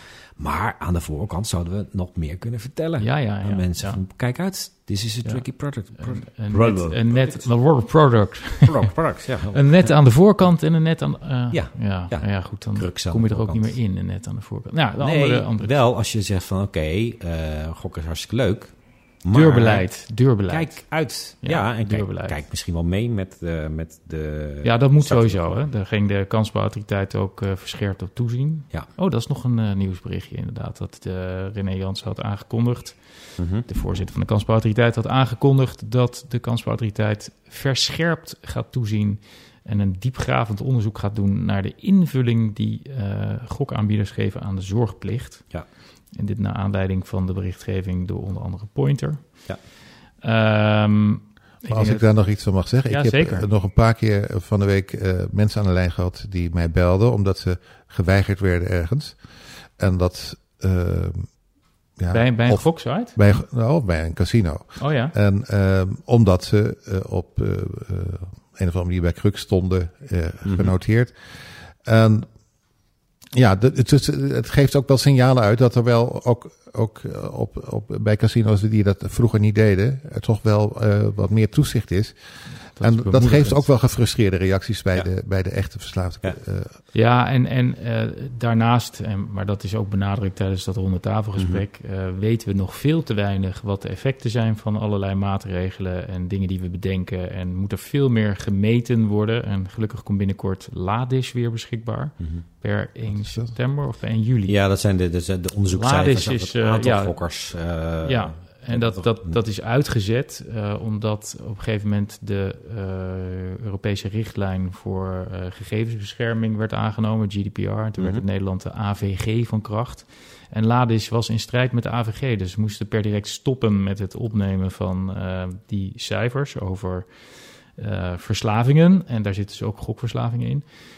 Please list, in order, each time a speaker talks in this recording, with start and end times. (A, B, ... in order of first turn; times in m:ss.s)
0:00.4-0:07.5 A
0:03.0-0:04.0 B
0:05.2-0:09.0 B
0:08.6-0:10.0 A
0:09.5-0:15.7 B
0:11.5-0:13.8 A
0:15.0-0:25.6 A
0:19.3-0:22.4 B
0:24.6-0:45.6 B
0:33.4-0:33.7 A
0:46.1-0:49.5 B
0:50.2-0:52.1 B
0:51.7-0:59.3 C
0:52.9-0:53.5 B
0:59.8-1:01.4 C
1:02.0-1:11.2 C
1:02.1-1:03.2 B
1:04.8-1:05.2 B
1:10.4-1:10.7 A
1:11.7-1:12.3 C
1:13.3-1:22.2 C
1:22.8-1:26.8 C
1:22.8-1:23.7 B
1:26.9-1:44.6 B
1:31.4-1:31.6 A
1:43.1-1:43.6 C
1:44.5-1:49.4 A
1:45.7-1:47.2 B
1:48.0-2:10.7 B
1:58.0-1:58.2 A